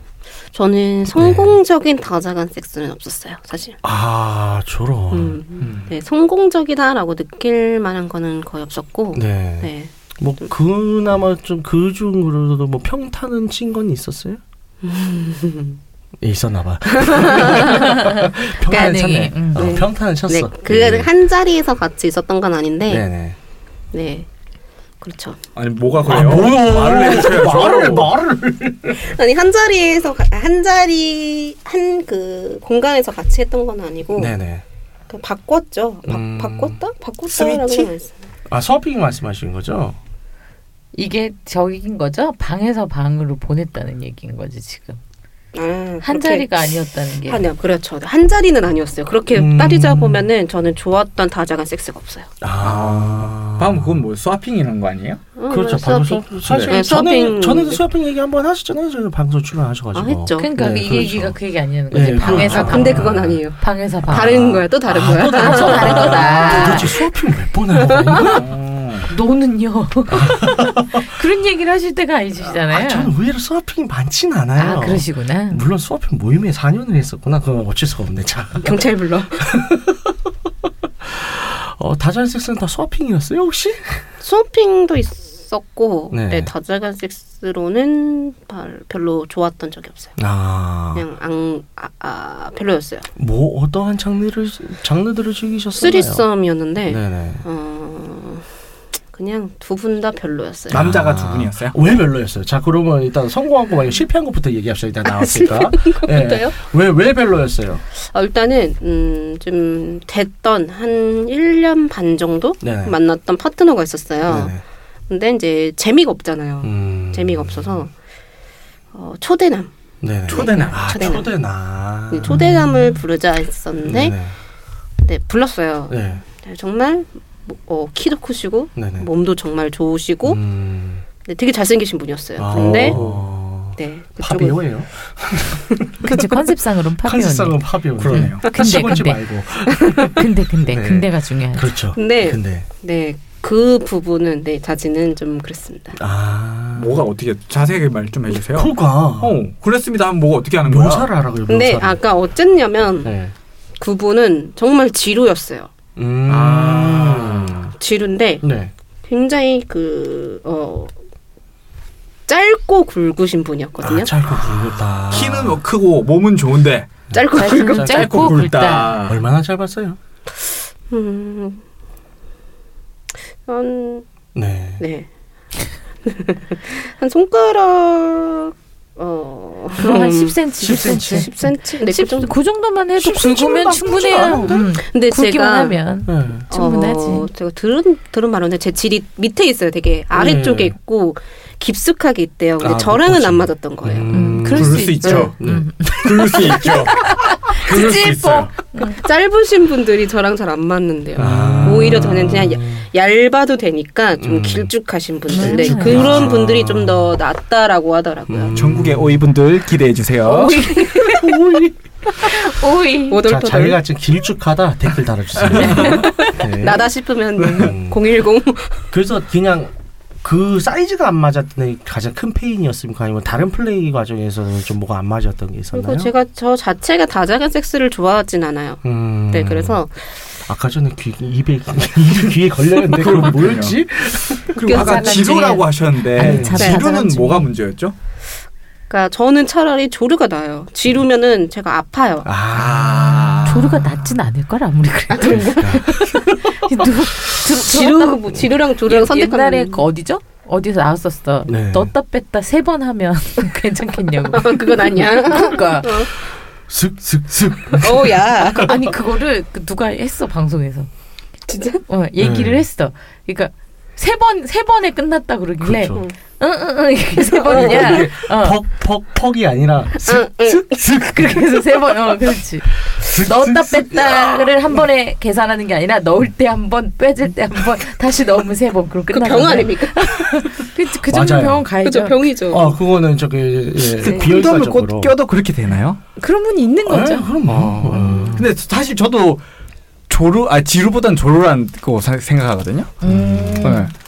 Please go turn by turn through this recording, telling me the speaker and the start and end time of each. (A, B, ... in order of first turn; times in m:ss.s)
0:00.5-0:03.8 A
0:01.2-0:01.6 B
0:03.8-0:05.4 B
0:05.1-0:09.9 A
0:05.6-0:05.9 C
0:09.1-0:14.4 B
0:14.8-0:15.8 A
0:16.2-0:21.1 B
0:16.9-0:17.9 A
0:17.6-0:19.8 D
0:18.7-0:19.0 A
0:19.5-0:23.1 A
0:22.9-0:23.4 B
0:23.9-0:24.3 A
0:25.0-0:25.4 A
0:25.6-0:28.1 C
0:26.0-0:29.1 B
0:29.0-0:34.3 A
0:34.2-0:34.6 B
0:35.1-0:38.1 A
0:36.1-0:36.8 B
0:37.3-0:37.9 C
0:38.5-0:40.0 B
0:40.9-0:45.0 D
0:45.5-0:46.7 A
0:46.0-0:47.5 D
0:47.3-0:52.3 A
0:49.3-0:50.3 B
0:52.4-0:54.0 B
0:52.6-0:55.2 C
0:55.4-0:57.8 A
0:55.5-1:01.4 B
0:59.9-1:00.5 A
1:00.4-1:04.5 D
1:01.9-1:03.4 B
1:02.2-1:07.0 A
1:04.1-1:08.5 B
1:05.4-1:06.9 D
1:07.8-1:08.4 A
1:08.2-1:09.1 C
1:09.1-1:13.1 D
1:10.1-1:11.1 B
1:12.7-1:18.8 B
1:14.6-1:15.7 D
1:18.6-1:19.5 A
1:19.4-1:20.2 B
1:21.0-1:24.1 B
1:24.2-1:30.2 A
1:26.1-1:26.5 B
1:30.2-1:31.1 B
1:30.9-1:33.1 A
1:33.2-1:36.3 B
1:35.8-1:38.5 A
1:36.8-1:37.4 B
1:39.1-1:40.8 A
1:40.7-1:42.0 C
1:40.7-1:47.8 B
1:45.0-1:46.6 A
1:48.0-1:54.6 A
1:52.6-1:53.0 B
1:54.3-1:54.6 B
1:55.1-1:57.9 A
1:56.6-1:57.8 B
1:58.9-1:59.7 A
2:00.0-2:02.6 B
2:00.3-2:01.2 C
2:00.3-2:01.3 A
2:02.1-2:04.2 A
2:02.3-2:02.9 D
2:03.8-2:04.4 B
2:05.0-2:10.4 A
2:05.9-2:06.2 B
2:08.8-2:09.1 B
2:10.2-2:11.0 B
2:11.2-2:13.0 A
2:12.4-2:16.2 B
2:12.7-2:13.2 C
2:13.8-2:14.6 A
2:16.0-2:19.2 D
2:17.0-2:22.7 B
2:18.0-2:18.5 C
2:19.7-2:20.2 A
2:20.0-2:21.8 D
2:22.0-2:26.0 A
2:26.0-2:27.1 B
2:26.8-2:31.1 C
2:28.3-2:29.4 B
2:30.6-2:32.0 B
2:31.5-2:33.1 A
2:33.0-2:33.3 B
2:33.8-2:35.7 A
2:36.0-2:37.7 B
2:36.3-2:37.6 C
2:37.8-2:38.4 A
2:38.4-2:38.7 B
2:39.1-2:40.9 A
2:42.3-2:44.1 A
2:43.8-2:45.6 B
2:45.1-2:46.9 C
2:47.1-2:50.0 B
2:47.1-2:47.9 A
2:47.3-2:49.0 D
2:47.7-2:49.2 C
2:50.9-2:51.6 A
2:53.5-2:54.0 A
2:54.4-2:54.8 B
2:54.8-2:55.1 A
2:56.0-3:02.3 A
2:59.8-3:07.3 D
3:00.6-3:01.3 B
3:03.0-3:04.7 B
3:04.1-3:05.8 A
3:06.1-3:06.5 B
3:06.5-3:14.1 A
3:10.1-3:10.8 B
3:12.6-3:15.7 B
3:14.1-3:19.0 D
3:14.5-3:15.4 C
3:16.0-3:18.5 C
3:16.4-3:16.8 A
3:17.5-3:28.6 A
3:21.2-3:22.9 B
3:21.2-3:21.5 C
3:24.2-3:24.7 B
3:25.3-3:26.2 D
3:25.4-3:27.2 B
3:25.8-3:26.4 C
3:28.3-3:29.3 B
3:28.5-3:31.3 C
3:30.2-3:31.4 A
3:31.1-3:31.7 B
3:32.1-3:32.5 A
3:32.2-3:33.2 D
3:33.1-3:33.8 A
3:33.2-3:36.9 B
3:35.4-3:36.1 C
3:35.5-3:36.3 D
3:35.7-3:38.8 A
3:37.4-3:37.7 C
3:37.4-3:38.1 B
3:38.9-3:46.1 B
3:45.7-3:50.1 A
3:48.8-3:49.8 B
3:50.5-3:54.6 B
3:52.9-3:53.8 C
3:54.6-3:55.7 A
3:54.6-3:58.0 C
3:54.6-3:57.5 D
3:56.2-3:56.8 B
3:56.6-3:56.8 A
3:58.9-4:02.3 A
4:02.2-4:03.8 B
4:02.5-4:03.9 C
4:03.5-4:16.1 D
4:05.1-4:06.0 A
4:05.3-4:06.6 B
4:07.6-4:09.8 A
4:11.5-4:11.9 B
4:14.3-4:16.1 A
4:16.6-4:18.8 B
4:17.7-4:18.8 A
4:18.6-4:20.9 D
4:21.5-4:21.8 A
4:21.9-4:28.6 D
4:22.2-4:22.6 B
4:25.6-4:26.1 B
4:27.3-4:28.1 A
4:27.5-4:30.3 B
4:30.0-4:31.4 A
4:30.4-4:42.2 D
4:32.9-4:34.4 B
4:39.1-4:40.4 A
4:41.1-4:41.7 B
4:41.8-4:42.8 A
4:42.5-4:45.2 B
4:44.0-4:46.0 C
4:44.0-4:44.3 A
4:46.2-4:47.3 D
4:46.9-4:48.5 B
4:47.5-4:49.4 C
4:47.9-4:48.4 A
4:50.1-4:53.0 C
4:53.0-4:53.9 D
4:53.0-4:53.8 B
4:53.6-4:53.9 C